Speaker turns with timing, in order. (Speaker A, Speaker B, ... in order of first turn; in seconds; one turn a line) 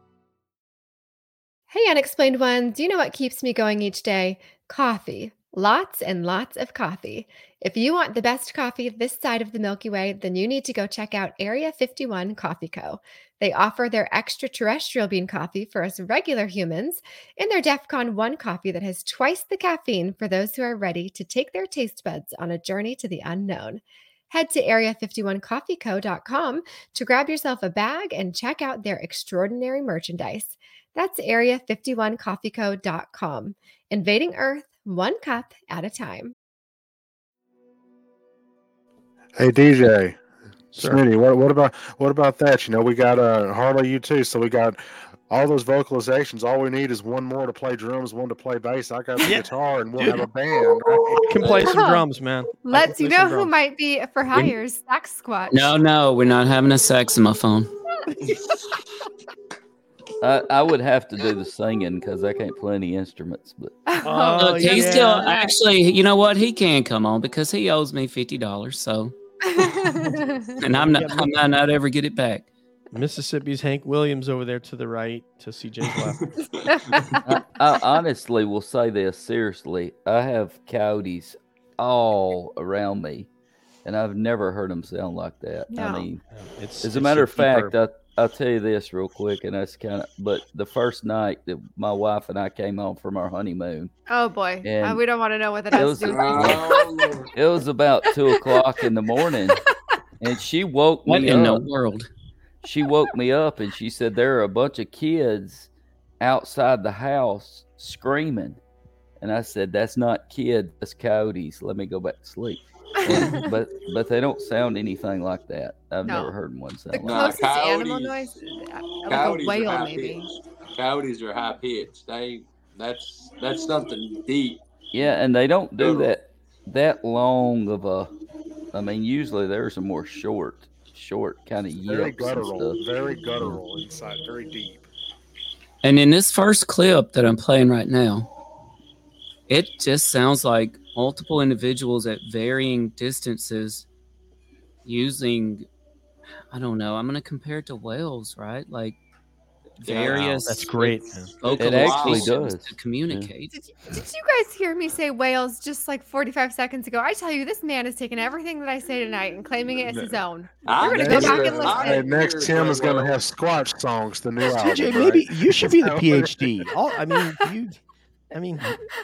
Speaker A: 1.7-36.3
Speaker B: 39.4-40.2
Speaker B: 40.7-51.6
Speaker C: 49.2-50.2
Speaker C: 51.0-53.5
Speaker D: 51.4-51.7
Speaker A: 51.6-52.1
Speaker A: 52.6-55.7
Speaker E: 55.5-57.7
Speaker F: 60.2-63.7
Speaker A: 63.9-65.4
Speaker C: 64.0-65.5
Speaker E: 64.4-69.1
Speaker A: 69.5-70.5
Speaker E: 70.6-72.5
Speaker C: 70.6-71.3
Speaker C: 72.9-76.2
Speaker D: 76.1-76.9
Speaker A: 76.9-77.2
Speaker F: 77.2-83.3
Speaker F: 83.8-86.2
Speaker A: 85.7-86.1
Speaker C: 86.3-87.7
Speaker F: 86.8-93.9
Speaker A: 94.1-96.8
Speaker F: 94.6-95.0
Speaker F: 95.7-96.8
Speaker D: 96.1-97.3
Speaker F: 97.3-99.6
Speaker F: 100.2-101.7
Speaker E: 101.1-102.1
Speaker F: 102.6-105.7
Speaker F: 106.2-108.6
Speaker F: 109.2-117.3
Speaker A: 113.1-113.4
Speaker A: 116.0-116.3
Speaker A: 116.9-120.3
Speaker D: 117.0-118.3
Speaker D: 119.1-124.6
Speaker F: 124.9-128.1
Speaker D: 125.8-126.1
Speaker F: 128.7-132.8
Speaker B: 131.8-134.9
Speaker E: 135.8-138.3
Speaker E: 139.5-143.9
Speaker E: 144.8-145.7
Speaker E: 146.5-149.0
Speaker E: 149.8-150.8
Speaker D: 149.8-152.3
Speaker C: 150.1-151.3
Speaker E: 151.4-153.5
Speaker F: 151.6-153.3
Speaker A: 153.5-162.1
Speaker B: 159.8-160.2
Speaker D: 160.7-163.2
Speaker B: 160.8-166.6
Speaker C: 161.1-161.5
Speaker C: 164.5-167.8
Speaker C: 168.3-168.8